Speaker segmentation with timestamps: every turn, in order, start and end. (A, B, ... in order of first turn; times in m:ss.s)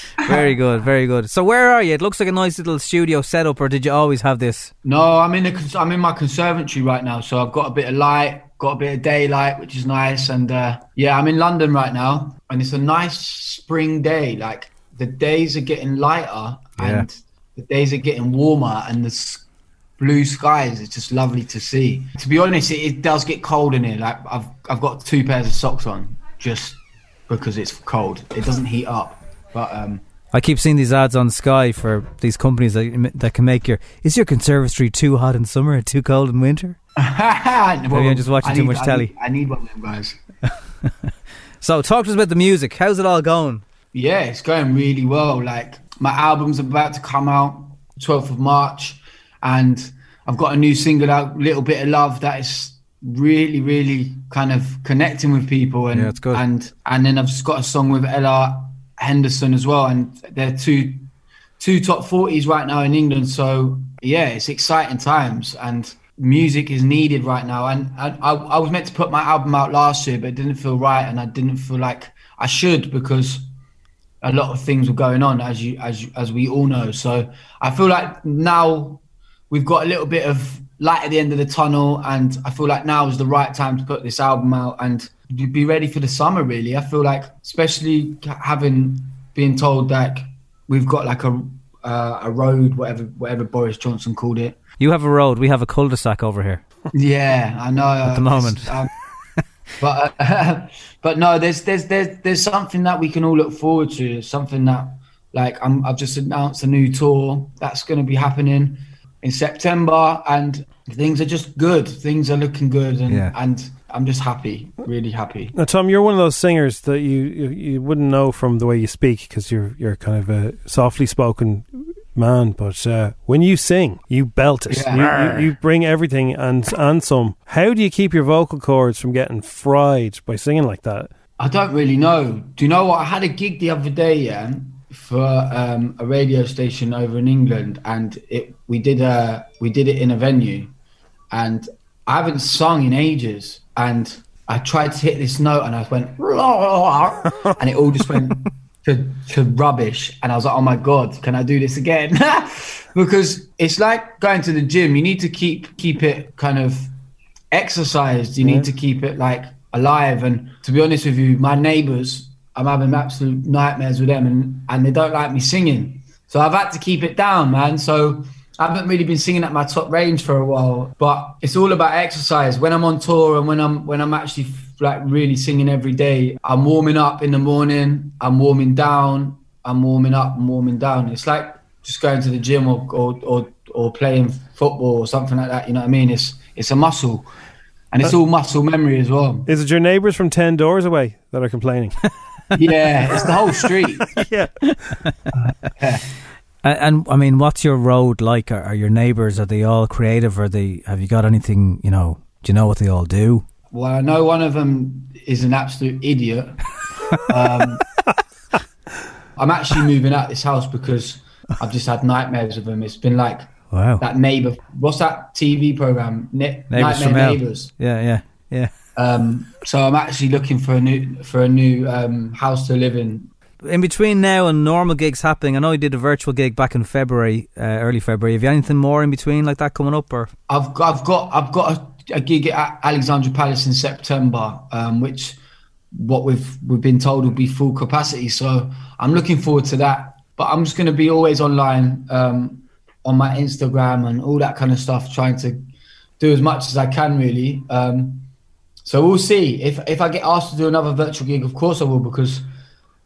0:00.2-0:04.7 A
0:04.8-0:19.4 B
0:16.8-0:17.0 A
0:20.0-0:30.0 B
0:30.3-0:36.8 A
0:37.0-0:40.2 B
0:37.9-0:39.1 A
0:40.5-0:43.6 A
0:43.9-1:01.1 B
0:55.9-0:56.4 A
1:01.6-1:13.4 B
1:14.2-1:34.6 B
1:34.8-1:36.6 A
1:36.9-1:38.9 B
1:38.0-1:38.8 A
1:39.8-1:55.5 B
1:53.1-1:53.3 A
1:55.5-2:11.1 C
2:04.7-2:05.5 B
2:11.4-2:20.7 B
2:21.3-2:36.9 B
2:37.5-3:07.3 B
3:07.9-3:09.5 B
3:09.5-3:12.0 C
3:12.5-3:14.2 B
3:14.1-3:14.5 C
3:14.7-3:15.1 A
3:15.4-3:16.0 B
3:16.6-3:23.4 A
3:23.7-3:26.6 B
3:27.3-3:27.8 B
3:29.4-3:33.5 B
3:33.7-3:34.0 A
3:34.0-3:37.7 B
3:36.7-3:38.7 A
3:39.0-3:43.3 B
3:43.6-3:50.3 A
3:50.5-3:55.4 B
3:55.9-4:05.6 B
4:06.2-4:08.3 B
4:08.8-4:12.4 B